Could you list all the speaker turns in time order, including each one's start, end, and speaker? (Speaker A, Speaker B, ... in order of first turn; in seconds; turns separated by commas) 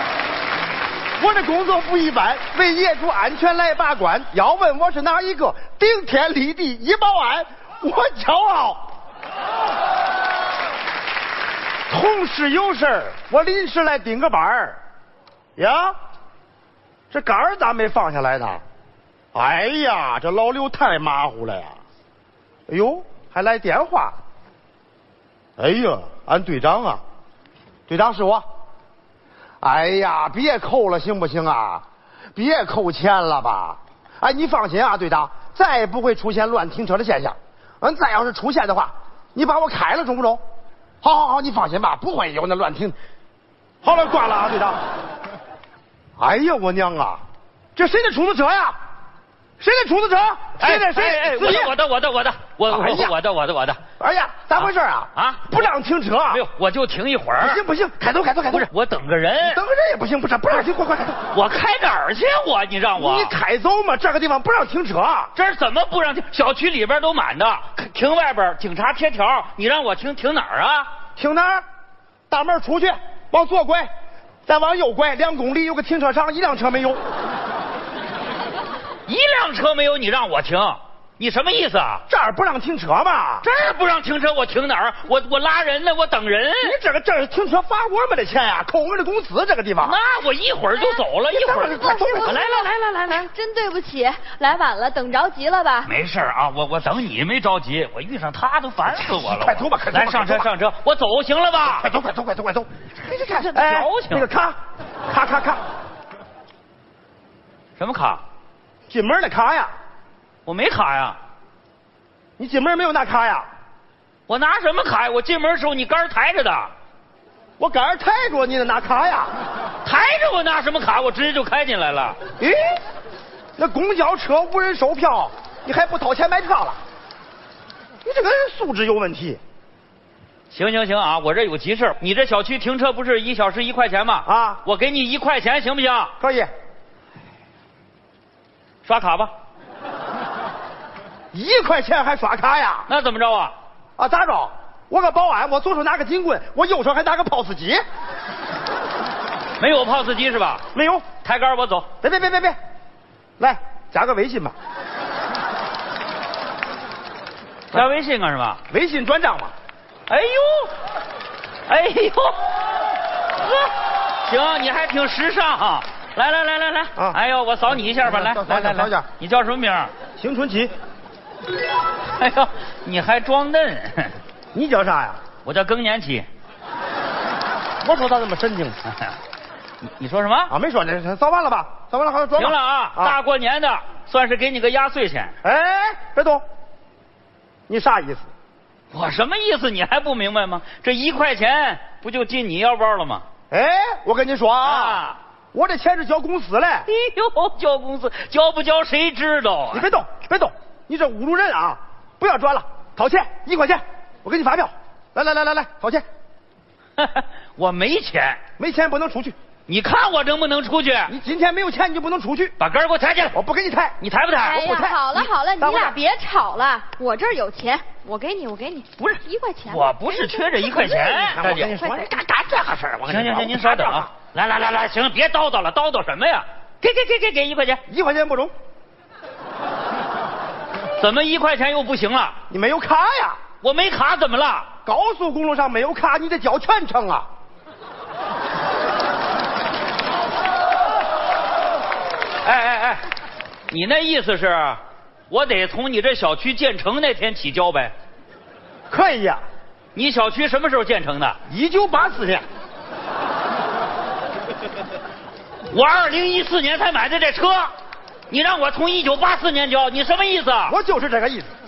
Speaker A: 1.2-8.8, Speaker A: 11.9-14.8, Speaker A: 15.6-15.9, Speaker A: 17.1-18.6, Speaker A: 19.3-21.8, Speaker A: 22.7-24.2, Speaker A: 25.6-27.0, Speaker A: 27.9-28.4, Speaker A: 29.6-31.8, Speaker A: 32.4-40.4, Speaker A: 41.0-43.0, Speaker A: 43.8-44.8, Speaker A: 46.2-47.2, Speaker A: 47.8-48.8, Speaker A: 49.6-51.7, Speaker B: 50.6-53.8, Speaker A: 52.7-53.1, Speaker A: 54.0-56.4, Speaker B: 54.6-55.6, Speaker B: 56.3-57.6, Speaker A: 57.4-58.7, Speaker B: 58.5-59.6, Speaker A: 59.5-61.2, Speaker B: 61.3-63.4, Speaker A: 63.0-65.3, Speaker B: 65.3-70.9, Speaker A: 71.2-71.6, Speaker A: 72.3-73.9, Speaker A: 74.5-77.0, Speaker B: 79.1-82.0, Speaker A: 82.1-83.5, Speaker B: 83.4-86.8, Speaker A: 86.6-90.0, Speaker B: 89.8-93.3, Speaker C: 90.7-91.0, Speaker A: 91.3-92.4, Speaker C: 91.5-95.9, Speaker B: 95.8-101.9, Speaker A: 98.8-100.5, Speaker A: 101.7-102.7, Speaker B: 103.0-104.3, Speaker A: 103.5-105.6, Speaker B: 107.8-108.2, Speaker A: 108.9-109.7, Speaker B: 110.5-111.2, Speaker A: 112.4-113.5, Speaker B: 114.3-116.7, Speaker A: 117.6-119.3, Speaker B: 119.8-122.2, Speaker A: 122.4-122.8, Speaker A: 123.6-126.8, Speaker A: 128.0-129.4, Speaker B: 130.5-136.1, Speaker A: 134.2-134.6, Speaker A: 136.2-136.5, Speaker B: 138.8-139.3, Speaker A: 141.3-142.9, Speaker B: 142.9-143.5, Speaker A: 144.0-147.8, Speaker B: 149.6-150.6, Speaker A: 150.7-151.1, Speaker B: 151.2-151.9, Speaker A: 152.0-152.6, Speaker A: 153.4-154.5, Speaker B: 157.7-158.6, Speaker A: 158.7-159.5, Speaker B: 160.1-160.7, Speaker B: 161.7-162.4, Speaker B: 164.2-169.9, Speaker A: 168.0-169.1, Speaker A: 170.2-170.7, Speaker B: 172.2-174.2, Speaker A: 174.5-175.2, Speaker B: 175.4-176.3, Speaker A: 177.8-178.8, Speaker B: 179.9-180.5, Speaker A: 180.5-183.2, Speaker B: 182.3-185.3, Speaker A: 185.4-186.4, Speaker A: 187.7-188.3, Speaker B: 188.9-193.2, Speaker A: 193.5-196.9, Speaker B: 194.6-195.2, Speaker B: 196.9-199.9, Speaker A: 199.7-206.0, Speaker B: 207.0-208.4, Speaker A: 208.6-209.3, Speaker B: 209.7-211.1, Speaker A: 211.1-212.5, Speaker B: 212.6-213.4, Speaker A: 213.3-213.9, Speaker B: 214.0-214.7, Speaker C: 214.4-222.1, Speaker A: 214.6-216.0, Speaker B: 219.0-221.8, Speaker A: 221.3-224.1, Speaker B: 223.1-227.8, Speaker A: 227.9-228.5, Speaker B: 231.0-232.3, Speaker A: 232.5-233.4, Speaker B: 233.6-234.7, Speaker A: 234.8-237.3, Speaker B: 242.4-243.0, Speaker B: 243.7-247.9, Speaker A: 248.9-249.4, Speaker B: 249.9-251.4, Speaker A: 251.5-252.4, Speaker B: 255.7-257.7, Speaker B: 258.3-260.8, Speaker A: 260.7-261.5